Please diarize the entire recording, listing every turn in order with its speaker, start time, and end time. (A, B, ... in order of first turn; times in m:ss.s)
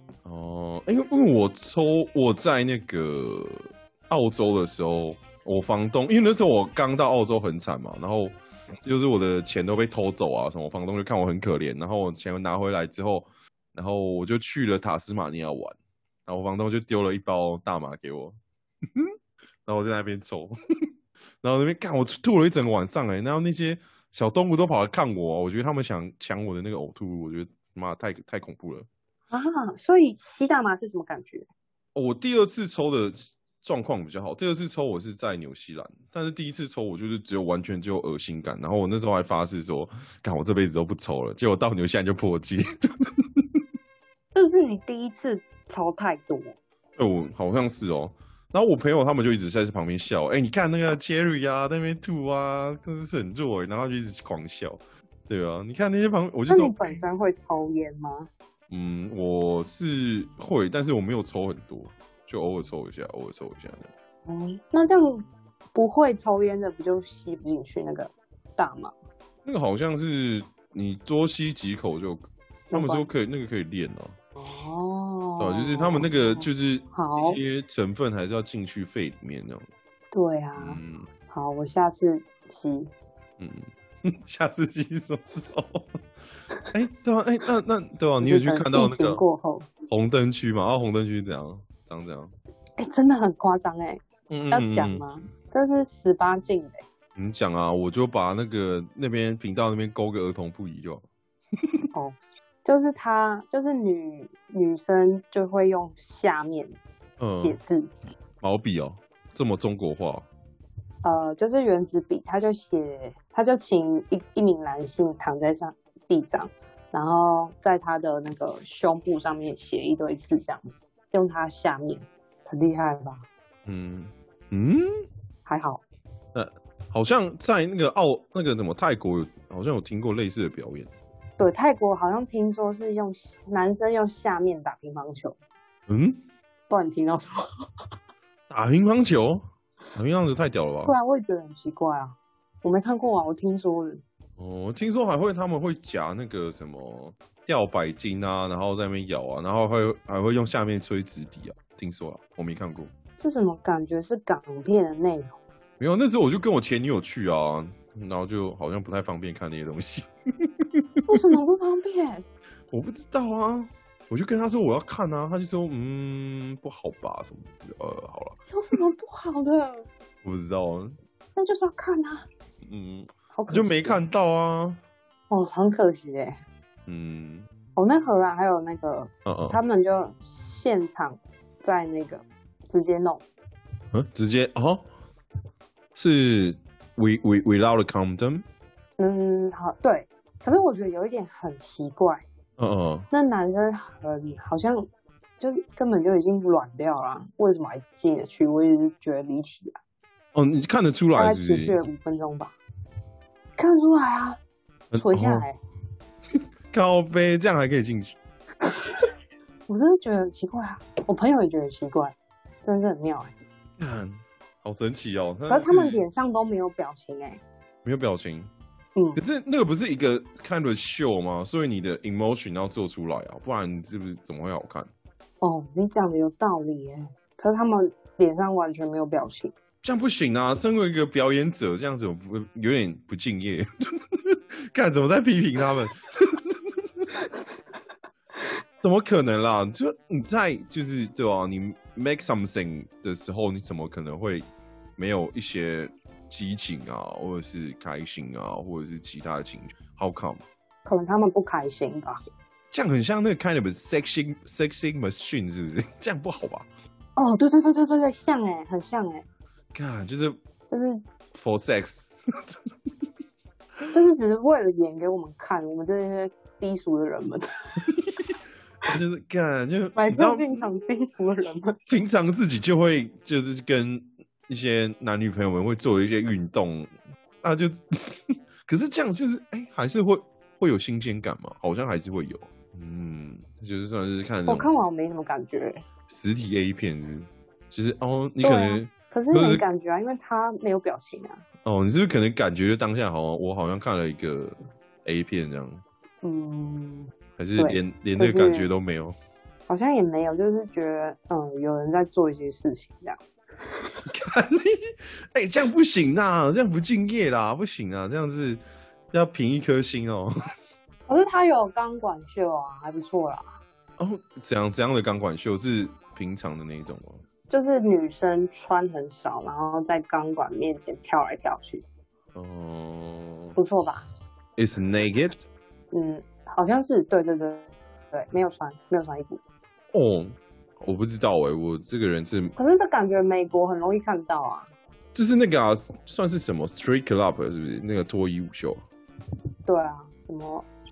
0:00.2-0:18.4 A
0:19.7-0:20.6 A
0:21.4-0:28.9 A
0:29.3-0:31.5 B
0:32.0-0:43.6 A
0:44.3-0:46.6 B
0:47.0-0:57.0 A
0:56.5-0:58.3 B
0:58.7-1:03.9 A
1:04.3-1:08.9 B
1:09.4-1:14.2 A
1:12.7-1:13.1 B
1:14.4-1:17.4 B
1:15.4-1:19.7 A
1:20.1-1:22.9 B
1:20.6-1:21.1 A
1:23.4-1:26.0 A
1:26.7-1:29.2 A
1:28.2-1:29.7 B
1:29.9-1:32.3 A
1:32.8-1:36.8 B
1:34.3-1:35.0 A
1:37.2-1:41.0 A
1:41.9-1:46.8 B
1:47.2-1:47.6 A
1:47.3-1:47.9 B
1:48.4-1:50.3 A
1:51.0-2:03.2 B
2:03.7-2:04.9 A
2:05.5-2:05.8 B
2:06.3-2:10.9 A
2:11.4-2:15.4 B
2:15.9-2:16.2 A
2:16.7-2:17.4 B
2:18.5-2:20.9 A
2:20.8-2:24.0 B
2:24.4-2:32.9 A
2:33.2-2:35.4 B
2:35.8-2:41.2 A
2:41.1-2:42.2 B
2:42.7-2:48.4 A
2:48.5-2:49.9 B
2:50.2-2:51.0 A
2:51.4-2:52.3 B
2:52.6-2:54.8 A
2:53.3-2:54.0 B
2:55.3-2:56.4 B
2:56.9-2:57.5 A
2:57.8-3:03.2 B
2:59.3-2:59.6 A
3:03.9-3:04.9 A
3:06.0-3:08.4 A
3:09.0-3:12.2 B
3:12.6-3:13.1 A
3:13.1-3:14.9 B
3:15.4-3:19.8 B
3:20.3-3:21.8 A
3:21.2-3:22.6 B
3:23.6-3:24.4 B
3:24.9-3:25.5 A
3:25.0-3:25.6 B
3:26.7-3:28.2 A
3:29.7-3:33.3 B
3:33.8-3:36.0 A
3:35.5-3:37.4 B
3:37.8-3:38.5 A
3:39.0-3:39.2 B
3:39.2-3:44.9 A
3:45.4-3:49.5 B
3:49.8-3:57.1 A
3:58.8-4:10.4 A
4:10.8-4:12.2 B
4:12.7-4:16.7 A
4:17.2-4:19.2 B
4:19.7-4:20.4 A
4:20.7-4:21.0 B
4:21.3-4:22.7 A
4:23.9-4:27.8 B
4:28.9-4:30.5 A
4:30.0-4:31.8 B
4:31.9-4:44.9 A
4:44.5-4:45.8 B
4:46.1-4:49.6 A
4:48.4-4:51.4 B
4:51.6-4:55.8 A
4:56.2-4:58.7 B
4:57.4-4:59.2 A
4:59.7-5:03.2 B
5:04.1-5:10.3 A
5:11.1-5:13.6 B
5:14.0-5:17.2 A
5:17.5-5:21.8 B
5:22.4-5:23.6 A
5:23.6-5:24.1 B
5:24.6-5:25.4 A
5:25.9-5:29.4 B
5:29.9-5:32.6 A
5:32.6-5:34.7 B
5:35.1-5:38.8 A
5:39.7-5:40.7 B